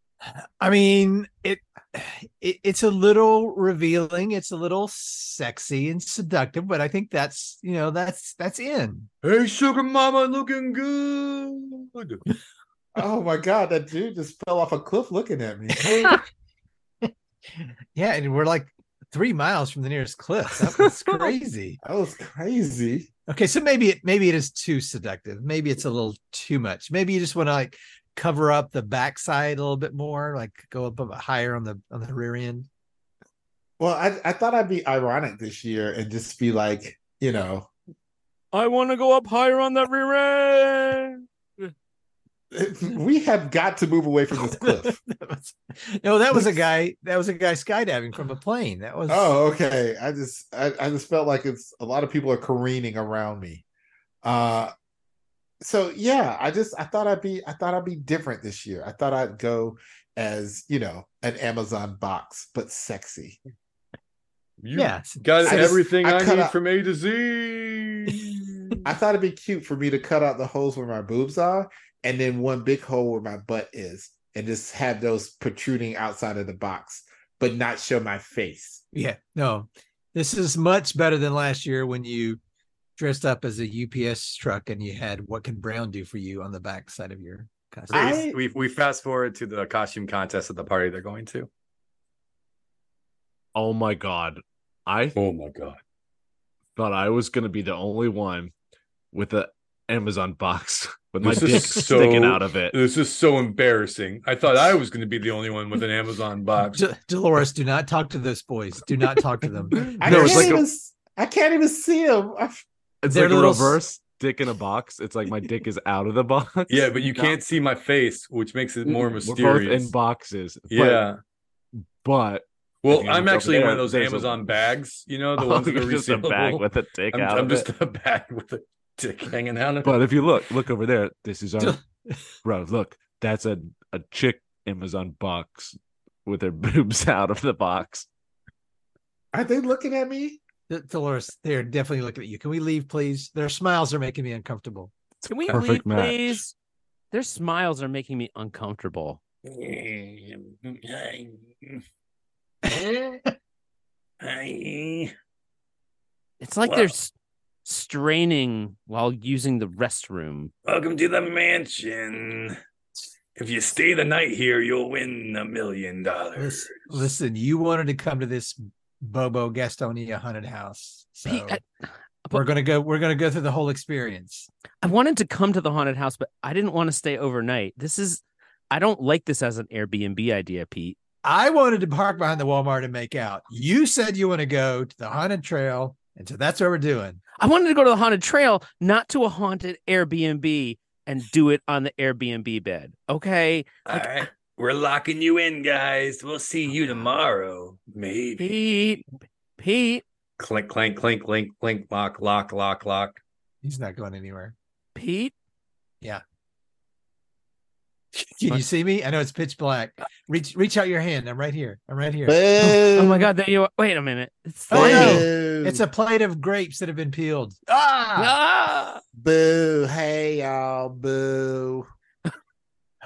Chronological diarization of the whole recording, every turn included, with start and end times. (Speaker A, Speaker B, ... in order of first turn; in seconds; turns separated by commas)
Speaker A: 0.3-9.1, Speaker B: 9.2-12.2, Speaker C: 12.9-16.2, Speaker A: 15.7-16.2, Speaker A: 17.0-21.8, Speaker C: 21.8-23.1, Speaker A: 23.3-32.7, Speaker C: 33.8-37.7, Speaker D: 38.5-41.6, Speaker C: 42.5-45.0, Speaker A: 44.3-49.3, Speaker C: 49.1-53.6, Speaker C: 54.2-54.7, Speaker C: 55.6-63.4, Speaker B: 64.6-68.8, Speaker A: 64.7-65.8, Speaker C: 65.4-66.5, Speaker C: 68.8-78.8, Speaker A: 78.9-82.4, Speaker A: 83.0-88.2, Speaker B: 87.9-91.5, Speaker C: 87.9-88.4, Speaker E: 93.5-95.2, Speaker B: 95.2-95.8, Speaker E: 96.8-98.5, Speaker E: 99.1-102.8, Speaker B: 101.2-106.8, Speaker A: 106.7-110.6, Speaker E: 109.8-110.7, Speaker C: 110.0-112.6, Speaker E: 113.0-117.3, Speaker A: 113.1-113.8, Speaker B: 116.7-119.9, Speaker E: 118.8-121.0, Speaker B: 120.7-121.2, Speaker E: 122.0-124.4, Speaker B: 122.8-130.0, Speaker E: 125.3-127.7, Speaker E: 129.8-131.8, Speaker A: 131.6-132.3, Speaker E: 132.4-138.1, Speaker C: 139.3-140.4, Speaker A: 140.7-144.9, Speaker E: 145.2-146.4, Speaker D: 145.3-146.5, Speaker D: 147.1-149.2, Speaker B: 149.4-151.8, Speaker A: 152.6-153.3, Speaker B: 154.2-155.1, Speaker D: 156.4-157.1, Speaker B: 156.7-156.9, Speaker D: 157.6-160.5, Speaker B: 160.6-162.6, Speaker B: 163.3-167.0, Speaker A: 166.3-171.6, Speaker D: 171.2-171.6, Speaker A: 172.3-174.5, Speaker D: 174.8-180.9, Speaker A: 181.2-187.2, Speaker D: 187.4-194.3, Speaker B: 193.8-198.5, Speaker D: 198.4-199.0, Speaker D: 199.6-200.0, Speaker B: 200.4-203.2, Speaker A: 203.6-204.5, Speaker D: 204.9-205.3, Speaker A: 208.3-212.5, Speaker C: 212.3-213.3, Speaker D: 212.6-215.2, Speaker A: 214.7-218.3, Speaker C: 214.7-215.8, Speaker D: 218.2-219.0, Speaker C: 219.2-221.8